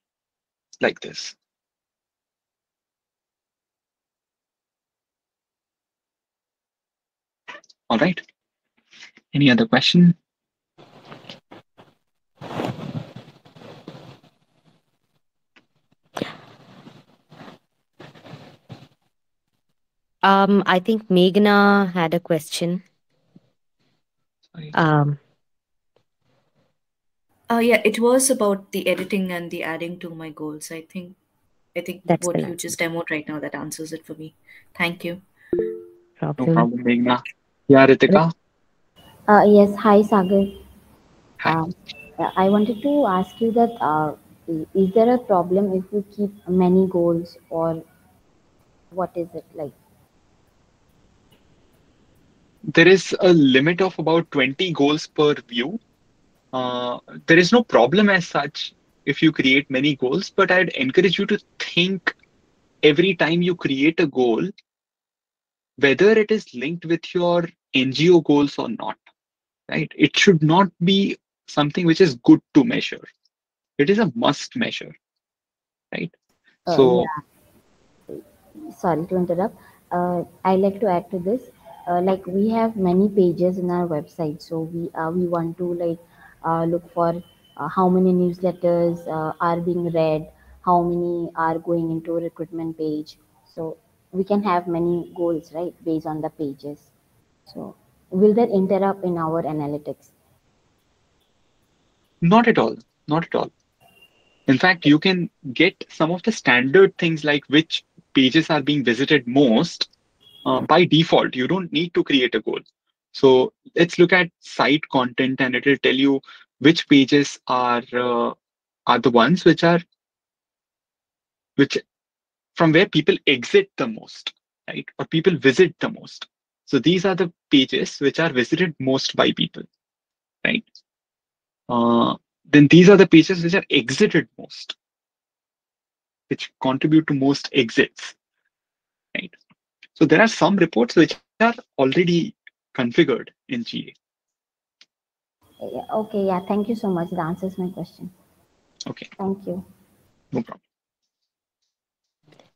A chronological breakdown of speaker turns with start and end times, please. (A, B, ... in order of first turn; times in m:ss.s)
0:00.8-0:01.4 A
0:07.9-0:08.2 A
0:09.3-0:10.2 A
0:20.2-0:22.8 B
0:24.7-0:25.2 B
0:27.5-0:31.2 C
0:31.8-0:35.2 C
0:32.1-0:32.5 B
0:36.2-0:36.7 B
0:36.4-0:38.3 A
0:39.3-0:40.6 D
0:41.4-0:47.8 D
0:48.9-0:49.8 D
0:52.7-0:55.8 A
0:56.5-1:02.1 A
1:02.8-1:04.5 A
1:05.8-1:09.0 A
1:09.7-1:13.1 A
1:13.8-1:15.0 A
1:16.7-1:17.2 D
1:16.7-1:17.1 A
1:18.7-1:36.9 D
1:37.5-1:40.1 D
1:42.2-1:43.5 A
1:44.5-1:49.9 A
1:50.4-1:58.4 A
1:58.9-1:59.8 A
2:01.6-2:01.8 A
2:02.6-2:09.7 A
2:11.7-2:14.7 A
2:16.3-2:18.2 A
2:20.0-2:23.9 A
2:25.6-2:28.1 D
2:29.2-2:29.6 D
2:30.3-2:30.6 A